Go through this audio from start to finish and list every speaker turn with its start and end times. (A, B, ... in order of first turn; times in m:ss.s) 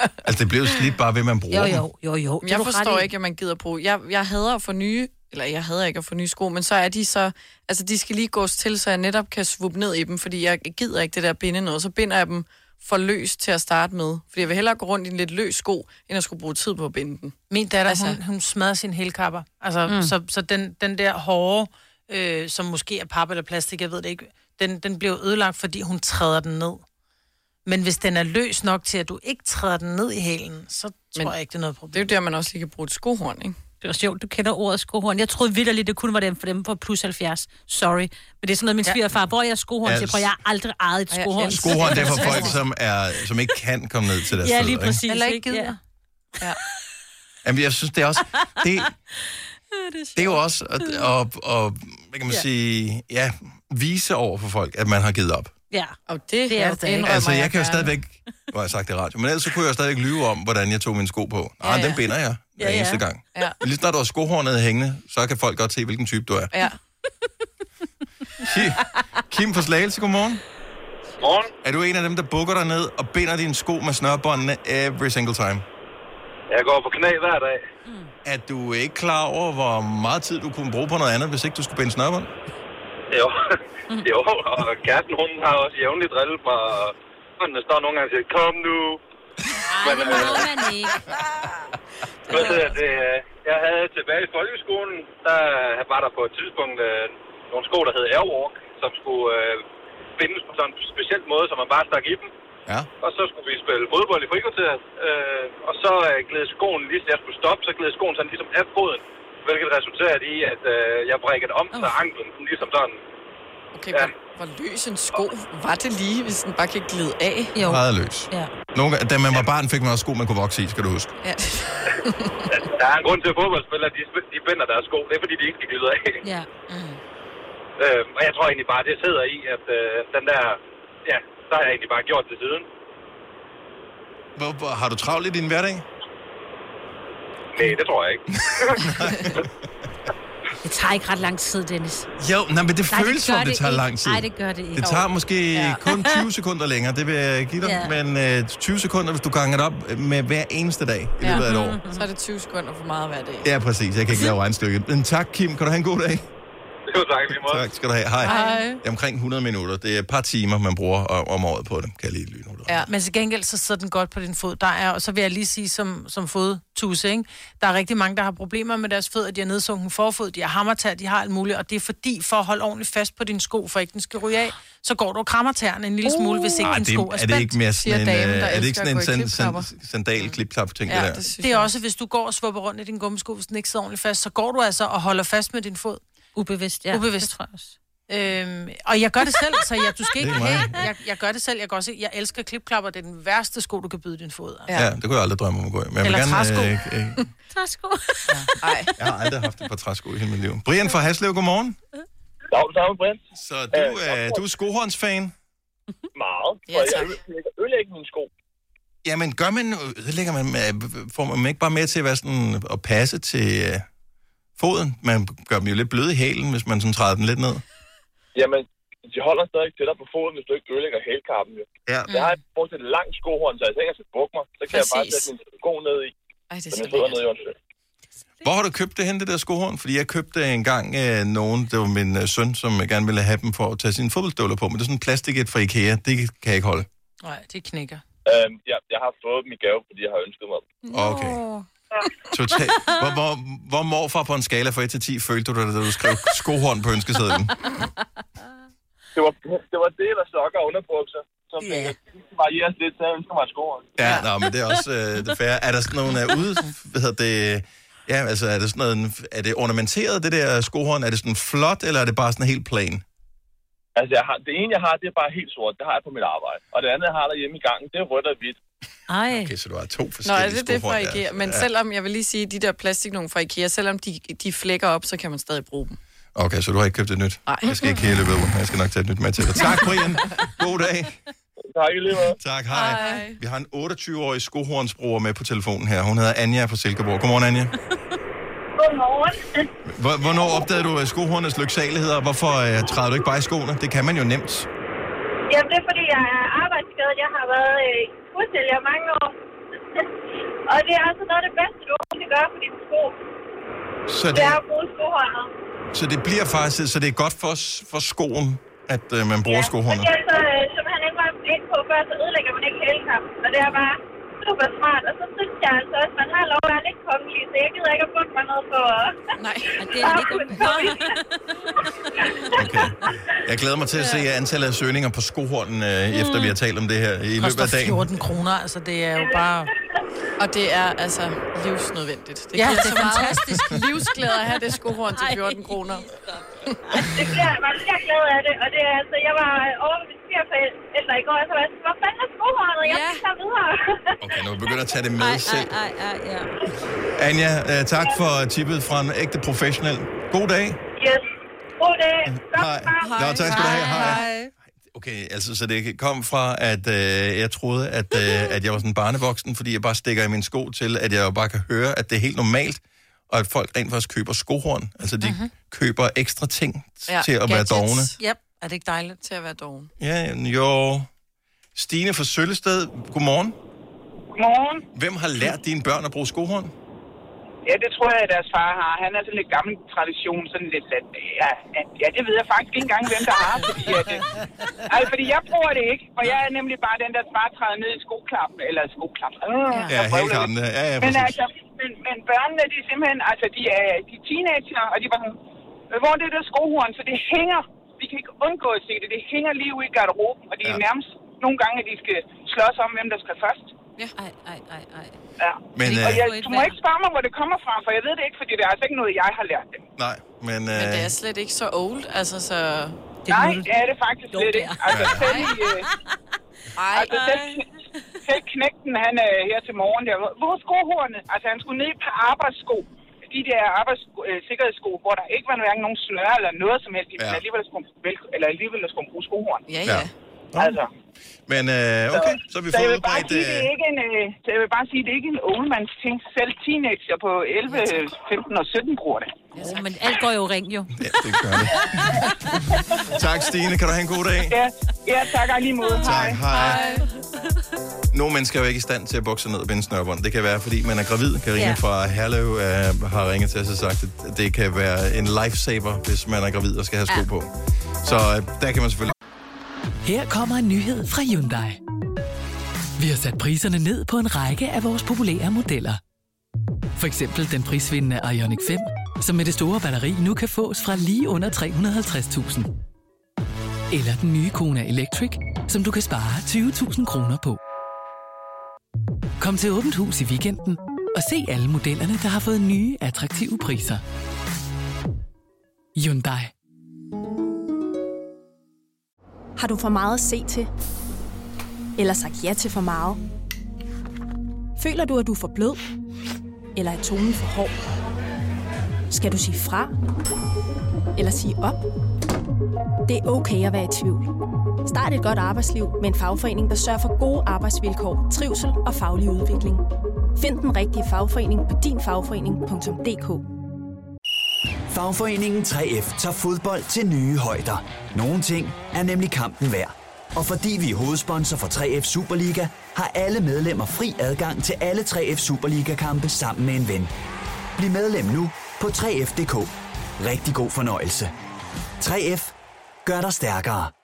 0:00.2-0:01.8 A
0:01.5-0:03.1 B
0:02.4-0:18.2 C
0:17.5-0:26.8 D
0:27.6-0:32.1 D
0:31.9-0:33.6 C
0:33.8-0:42.6 B
0:39.8-0:40.2 A
0:41.1-0:42.6 C
0:41.5-0:45.0 A
0:44.4-0:45.7 B
0:45.1-0:45.8 D
0:47.4-0:48.9 A
0:49.8-0:51.1 B
0:50.2-0:55.5 A
0:55.7-0:56.0 B
0:56.1-0:57.9 C
0:56.5-0:57.2 B
0:57.0-1:06.5 A
1:01.6-1:02.0 C
1:02.6-1:03.0 B
1:06.5-1:06.8 C
1:08.4-1:10.4 A
1:11.2-1:11.5 E
1:11.6-1:15.6 A
1:16.5-1:17.6 E
1:17.8-1:18.1 B
1:18.2-1:22.3 A
1:23.1-1:29.0 E
1:29.7-1:31.0 B
1:29.8-1:30.5 E
1:32.3-1:32.6 C
1:32.3-1:39.6 E
1:40.2-1:42.3 E
1:43.0-1:53.0 E
1:53.7-1:57.6 C
1:57.5-1:58.5 B
1:57.6-2:01.1 A
2:01.2-2:02.5 C
2:02.5-2:06.2 E
2:06.2-2:06.5 B
2:06.7-2:07.0 D
2:07.8-2:12.7 E
2:14.4-2:15.8 A
2:17.5-2:18.8 E
2:18.8-2:19.5 A
2:20.6-2:22.1 B
2:22.2-2:31.8 A
2:22.9-2:25.1 B
2:25.5-2:25.8 C
2:25.9-2:26.1 B
2:27.6-2:27.9 B
2:31.2-2:33.5 C
2:31.3-2:32.0 B
2:33.4-2:36.2 A
2:36.9-2:37.6 E
2:37.3-2:42.9 A
2:38.2-2:38.7 C
2:38.2-2:38.8 D
2:42.9-2:57.6 D
2:56.6-3:01.2 A
2:57.8-2:59.7 C
3:00.9-3:01.7 C
3:01.4-3:06.0 D
3:06.4-3:07.7 B
3:06.9-3:07.3 D
3:08.1-3:14.7 D
3:10.2-3:10.8 A
3:14.7-3:17.2 A
3:16.0-3:16.7 D
3:17.5-3:18.5 B
3:18.6-3:18.9 C
3:19.0-3:21.8 A
3:22.5-3:24.4 F
3:23.3-3:25.3 A
3:26.1-3:28.3 F
3:26.7-3:27.2 C
3:29.0-3:33.8 A
3:34.6-3:37.6 A
3:38.3-3:46.1 F
3:44.7-3:45.3 C
3:46.5-3:47.2 C
3:46.7-3:47.5 F
3:48.4-3:56.9 A
3:57.2-3:58.0 D
3:58.3-4:00.7 F
4:00.9-4:01.6 B
4:00.9-4:01.4 A
4:02.3-4:07.8 A
4:09.1-4:14.0 F
4:11.6-4:11.9 B
4:14.0-4:23.0 A
4:24.0-4:28.6 F
4:29.1-4:29.5 B
4:29.3-4:31.7 A
4:30.2-4:36.0 C
4:36.3-4:41.2 A
4:37.5-4:38.0 C
4:39.6-4:40.4 C
4:41.7-4:42.4 F
4:42.4-4:47.7 A
4:42.7-4:43.4 C
4:48.8-4:49.7 G
4:49.8-4:54.7 A
4:50.3-4:50.7 G
4:55.5-5:00.1 G
5:00.7-5:03.2 G
5:04.1-5:04.6 A
5:04.3-5:05.5 G
5:05.9-5:10.1 A
5:09.4-5:19.2 G
5:19.4-5:19.7 C
5:19.8-5:21.3 B
5:19.9-5:21.2 G
5:22.0-5:22.8 G
5:22.6-5:28.1 A
5:26.1-5:26.5 B
5:27.4-5:29.7 D
5:29.2-5:29.4 G
5:30.4-5:36.0 C
5:32.5-5:33.8 D
5:35.1-5:36.2 B
5:37.1-5:44.8 G
5:42.8-5:43.2 C
5:44.2-5:45.7 A
5:45.2-5:46.5 B
5:47.1-5:50.8 A
5:51.0-5:51.3 G
5:51.8-5:53.4 G
5:52.2-5:54.2 A
5:53.0-5:54.2 C
5:53.4-5:54.5 D
5:54.9-6:08.1 A
6:05.2-6:05.5 D
6:07.1-6:08.2 C
6:08.2-6:09.2 D
6:09.2-6:09.9 C
6:10.0-6:11.1 A
6:11.7-6:13.5 A
6:14.3-6:14.8 H
6:14.9-6:16.7 A
6:17.6-6:24.2 H
6:24.9-6:35.4 H
6:29.9-6:31.4 A
6:35.9-6:43.7 H
6:44.2-6:45.2 B
6:45.4-6:49.8 H
6:45.8-6:46.3 A
6:45.8-6:46.8 B
6:50.0-6:51.1 A
6:50.7-6:53.0 C
6:53.2-6:53.7 B
6:53.3-6:55.9 H
6:54.3-6:55.9 B
6:54.9-6:55.4 A
6:55.2-6:55.5 C
6:56.8-6:57.6 C
6:56.9-6:57.6 H
6:58.2-7:09.6 H
7:07.2-7:07.4 A
7:09.7-7:10.1 C
7:09.8-7:10.8 A
7:10.6-7:10.9 H
7:11.5-7:13.7 A
7:12.7-7:19.4 H
7:19.5-7:19.9 C
7:19.6-7:22.6 B
7:21.0-7:22.3 A
7:23.0-7:24.6 A
7:24.5-7:26.4 H
7:25.9-7:26.9 B
7:26.0-7:27.0 A
7:26.5-7:27.0 C
7:28.1-7:37.5 A
7:31.6-7:31.8 B
7:38.0-7:39.1 A
7:40.0-7:41.8 I
7:43.0-7:46.0 I
7:47.0-7:52.7 I
7:53.9-7:57.6 I
7:59.4-8:04.0 I
8:06.0-8:06.5 I
8:09.6-8:10.7 J
8:12.0-8:13.2 J
8:14.8-8:15.8 J
8:16.7-8:17.8 J
8:19.1-8:19.9 J
8:21.2-8:21.8 J
8:23.1-8:24.3 J
8:24.8-8:29.8 J
8:30.4-8:33.4 J
8:34.9-8:47.1 K
8:47.8-8:51.3 K
8:52.0-8:53.9 K